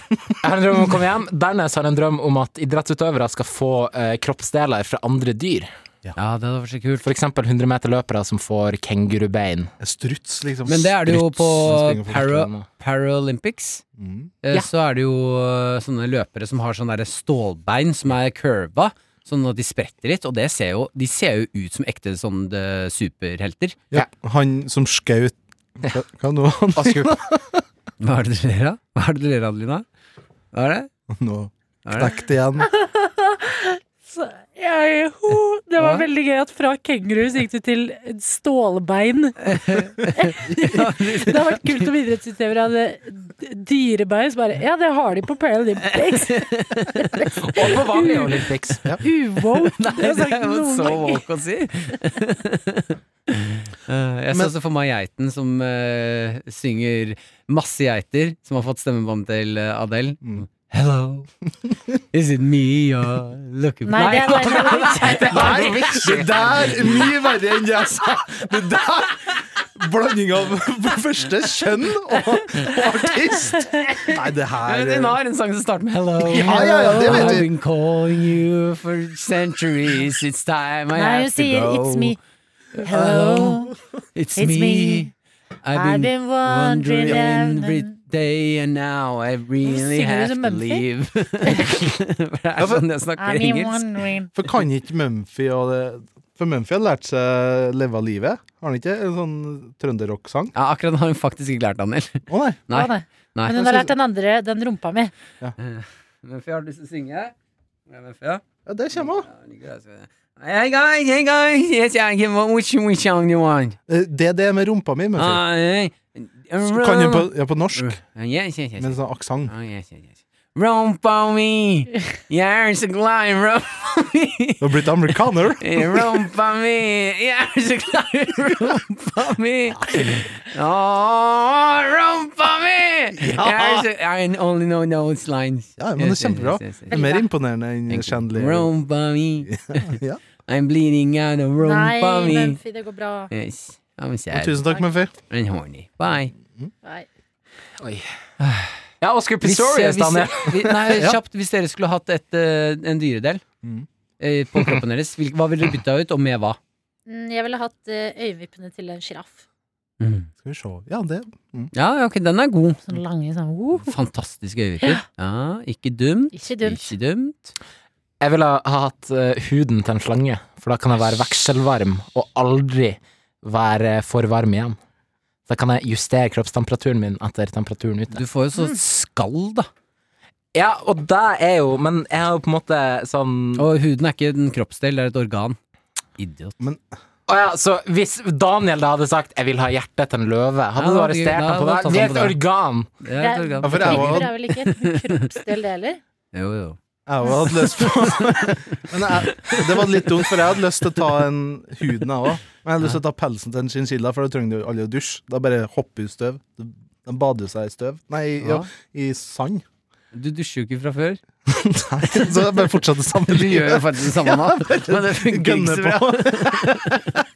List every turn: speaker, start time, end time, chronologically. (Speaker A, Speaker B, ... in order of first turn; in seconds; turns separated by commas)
Speaker A: 0.4-5.7, Speaker B: 6.2-7.1, Speaker A: 7.0-9.7, Speaker C: 9.8-12.5, Speaker B: 10.7-13.8, Speaker A: 12.3-12.6, Speaker C: 14.0-14.3, Speaker B: 14.4-23.8, Speaker C: 23.9-27.6, Speaker A: 26.8-27.2, Speaker B: 28.0-29.8, Speaker B: 30.5-30.9, Speaker C: 31.1-32.7, Speaker B: 31.9-32.2, Speaker D: 32.7-39.5, Speaker B: 39.5-41.9, Speaker D: 40.1-48.3, Speaker C: 40.5-40.7, Speaker B: 45.9-47.0, Speaker A: 47.4-48.9, Speaker D: 49.0-51.2, Speaker B: 49.5-61.3, Speaker B: 62.1-65.3, Speaker D: 63.9-65.5, Speaker A: 64.1-67.1, Speaker C: 65.3-75.2, Speaker B: 72.7-82.2, Speaker C: 76.2-77.5, Speaker D: 76.5-77.3, Speaker D: 80.9-82.2, Speaker B: 82.7-85.1, Speaker D: 82.8-83.7, Speaker D: 84.3-85.1, Speaker B: 85.6-93.8, Speaker D: 85.7-87.9, Speaker D: 89.6-90.8, Speaker C: 92.6-92.8, Speaker D: 93.2-94.3, Speaker C: 94.3-100.5, Speaker B: 100.5-103.6, Speaker C: 102.3-102.6, Speaker D: 102.7-105.1, Speaker C: 103.5-103.9, Speaker B: 105.6-107.3, Speaker B: 107.9-113.8, Speaker C: 108.7-109.3, Speaker C: 113.9-115.4, Speaker B: 115.2-137.0, Speaker C: 116.6-118.0, Speaker C: 118.8-119.5, Speaker C: 124.6-126.0, Speaker C: 129.7-130.2, Speaker C: 133.2-133.8, Speaker C: 135.8-138.7, Speaker D: 136.9-137.3, Speaker B: 137.9-142.6, Speaker C: 139.5-140.2, Speaker D: 141.6-143.3, Speaker B: 143.3-144.7, Speaker C: 144.3-145.1, Speaker B: 145.3-146.3, Speaker A: 147.8-148.1, Speaker B: 148.4-148.7, Speaker A: 149.0-151.0, Speaker B: 149.4-153.4, Speaker C: 150.9-151.2, Speaker B: 154.2-156.6, Speaker D: 157.1-159.4, Speaker B: 160.0-160.3, Speaker C: 160.4-161.7, Speaker B: 161.7-162.8, Speaker D: 162.9-163.9, Speaker B: 163.8-167.5, Speaker D: 166.3-166.9, Speaker A: 168.2-174.8, Speaker A: 175.5-178.2, Speaker B: 178.1-179.7, Speaker A: 180.5-183.7, Speaker B: 183.6-185.6, Speaker B: 186.2-186.6, Speaker A: 187.3-192.9, Speaker B: 190.8-192.4, Speaker B: 193.0-195.2, Speaker D: 193.2-196.0, Speaker C: 193.6-194.3, Speaker B: 196.3-196.8, Speaker C: 197.1-209.6, Speaker B: 197.4-198.5, Speaker B: 199.0-200.5, Speaker B: 208.4-208.7, Speaker B: 210.1-211.2, Speaker C: 211.5-217.2, Speaker B: 212.1-212.6, Speaker B: 213.3-216.8